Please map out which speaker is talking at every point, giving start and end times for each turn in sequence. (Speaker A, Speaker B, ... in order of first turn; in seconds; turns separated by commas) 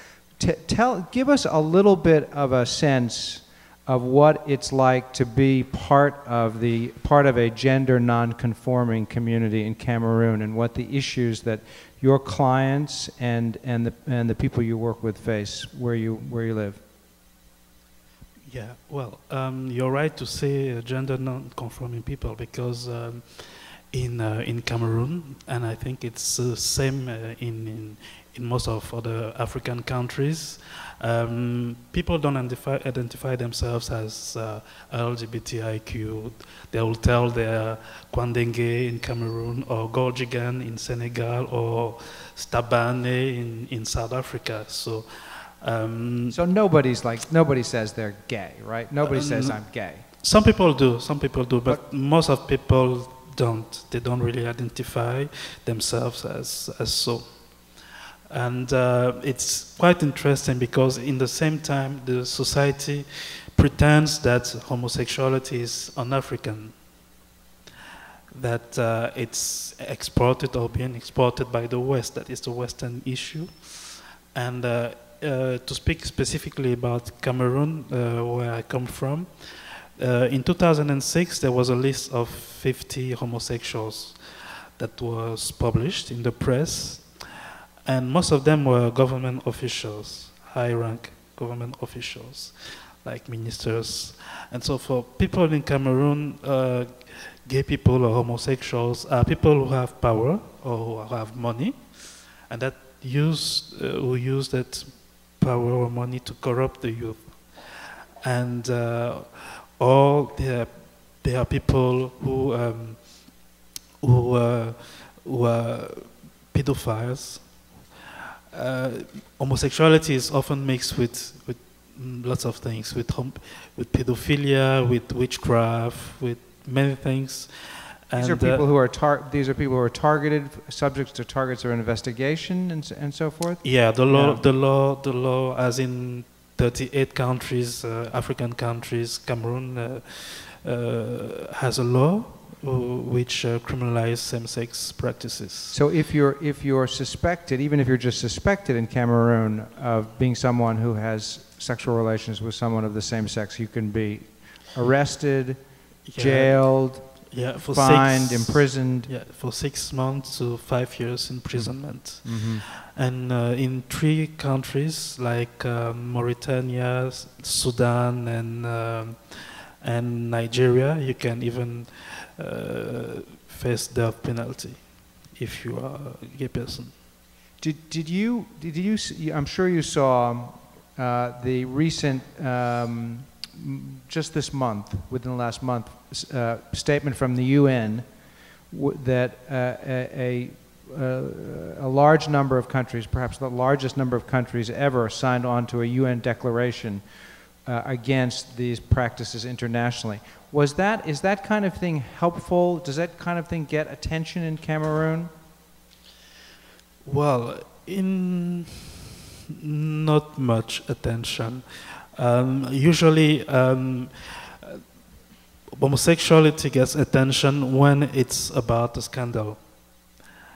Speaker A: 0.4-16.8, Speaker B: 18.4-46.4, Speaker A: 46.3-50.0, Speaker B: 49.0-66.9, Speaker B: 68.3-113.5, Speaker B: 114.0-117.9, Speaker B: 118.5-128.7, Speaker A: 128.1-134.4, Speaker B: 133.6-145.8, Speaker A: 145.7-155.6, Speaker B: 156.1-176.9, Speaker A: 156.1-159.1, Speaker A: 161.5-162.7, Speaker A: 177.6-188.1, Speaker A: 188.7-197.0, Speaker A: 197.7-205.3, Speaker B: 207.0-209.0, Speaker B: 209.5-214.8, Speaker B: 215.8-220.1